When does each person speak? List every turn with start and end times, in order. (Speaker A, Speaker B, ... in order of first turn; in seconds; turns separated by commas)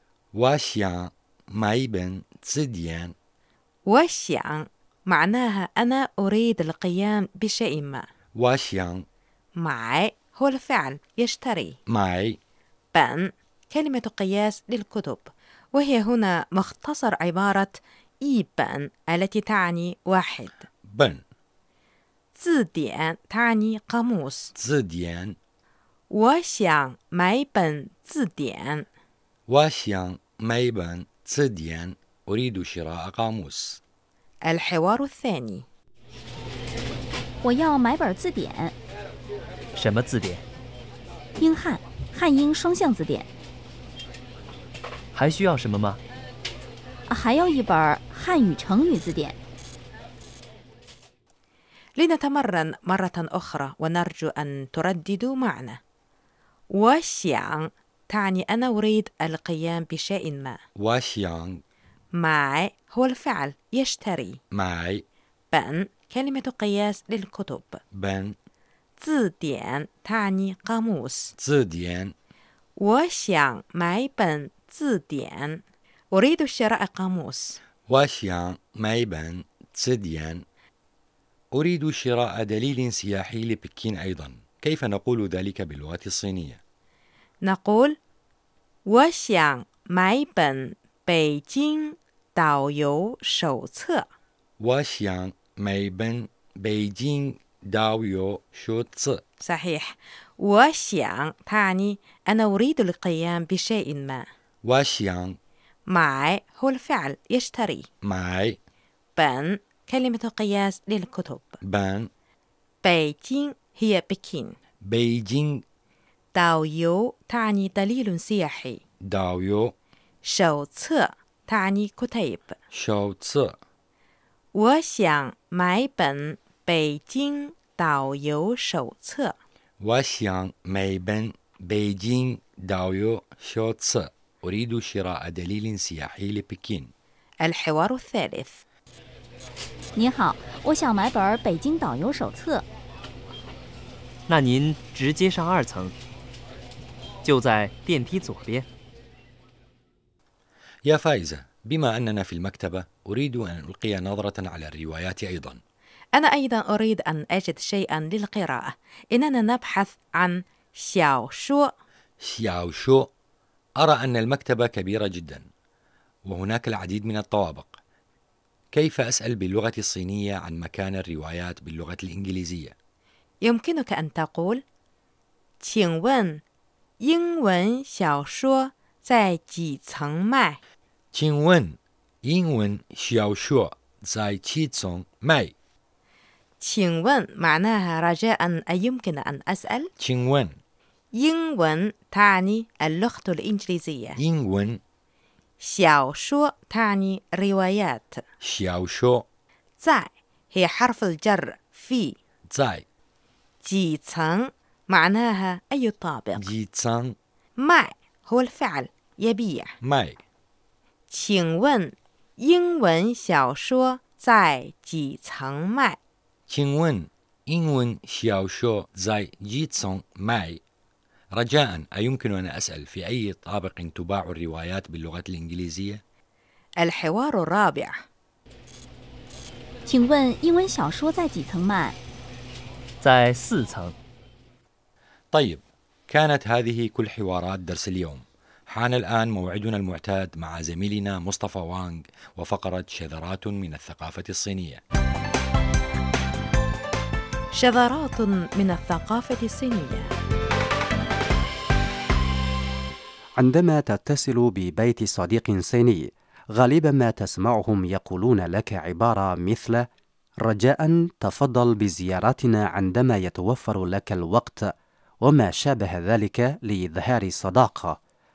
Speaker A: 0.3-3.1, Speaker B: 3.9-8.1, Speaker A: 8.4-9.1, Speaker B: 9.6-11.8, Speaker A: 11.9-12.4, Speaker B: 12.9-20.6, Speaker A: 20.9-21.2, Speaker B: 22.4-24.5, Speaker A: 24.6-25.4, Speaker B: 26.1-28.9, Speaker A: 29.5-33.8, Speaker B: 34.5-35.6, Speaker C: 37.4-38.8, Speaker D: 39.8-40.4, Speaker C: 41.4-43.3, Speaker D: 45.1-46.0, Speaker C: 47.1-49.4, Speaker B: 52.0-55.8, Speaker B: 56.7-60.6, Speaker A: 60.8-61.6, Speaker B: 62.2-64.4, Speaker A: 64.5-65.0, Speaker B: 65.5-67.8, Speaker A: 67.9-68.4, Speaker B: 69.0-71.3, Speaker A: 71.4-72.1, Speaker B: 72.8-75.6, Speaker B: 76.1-77.6, Speaker A: 77.9-80.4, Speaker A: 81.5-86.6, Speaker B: 87.5-87.9, Speaker B: 88.9-94.1, Speaker A: 94.6-99.2, Speaker B: 99.4-99.9, Speaker B: 100.4-104.2, Speaker A: 104.6-105.4, Speaker B: 105.9-107.9, Speaker A: 108.0-108.6, Speaker B: 109.2-111.6, Speaker A: 111.6-112.1, Speaker B: 112.8-114.5, Speaker A: 114.8-115.6, Speaker B: 116.3-118.8, Speaker A: 119.0-119.7, Speaker B: 120.2-122.6, Speaker A: 122.7-123.6, Speaker B: 124.5-129.3, Speaker A: 129.8-136.9, Speaker B: 137.4-138.6, Speaker C: 140.0-142.6, Speaker D: 144.3-146.0, Speaker D: 147.2-148.7, Speaker A: 150.8-155.6, Speaker B: 156.1-161.7, Speaker A: 162.2-163.1, Speaker A: 163.8-165.4, Speaker A: 166.3-167.8, Speaker A: 168.7-172.8, Speaker B: 173.4-174.6, Speaker B: 175.6-176.4, Speaker B: 177.0-180.6, Speaker A: 181.1-185.5, Speaker B: 186.6-189.9, Speaker A: 190.0-190.6, Speaker B: 191.2-194.2, Speaker A: 194.2-194.8, Speaker B: 195.6-198.2, Speaker A: 198.4-199.2, Speaker B: 199.8-202.2, Speaker A: 202.5-202.8, Speaker B: 203.6-206.5, Speaker A: 206.4-207.2, Speaker B: 207.6-209.8, Speaker A: 209.8-210.2, Speaker B: 211.1-216.0, Speaker A: 216.5-220.6, Speaker A: 221.3-226.0, Speaker B: 226.8-227.9, Speaker C: 229.9-232.0, Speaker D: 233.0-233.9, Speaker A: 235.3-244.8, Speaker B: 247.6-250.1, Speaker E: 253.4-259.9, Speaker E: 260.4-264.7, Speaker E: 265.2-268.0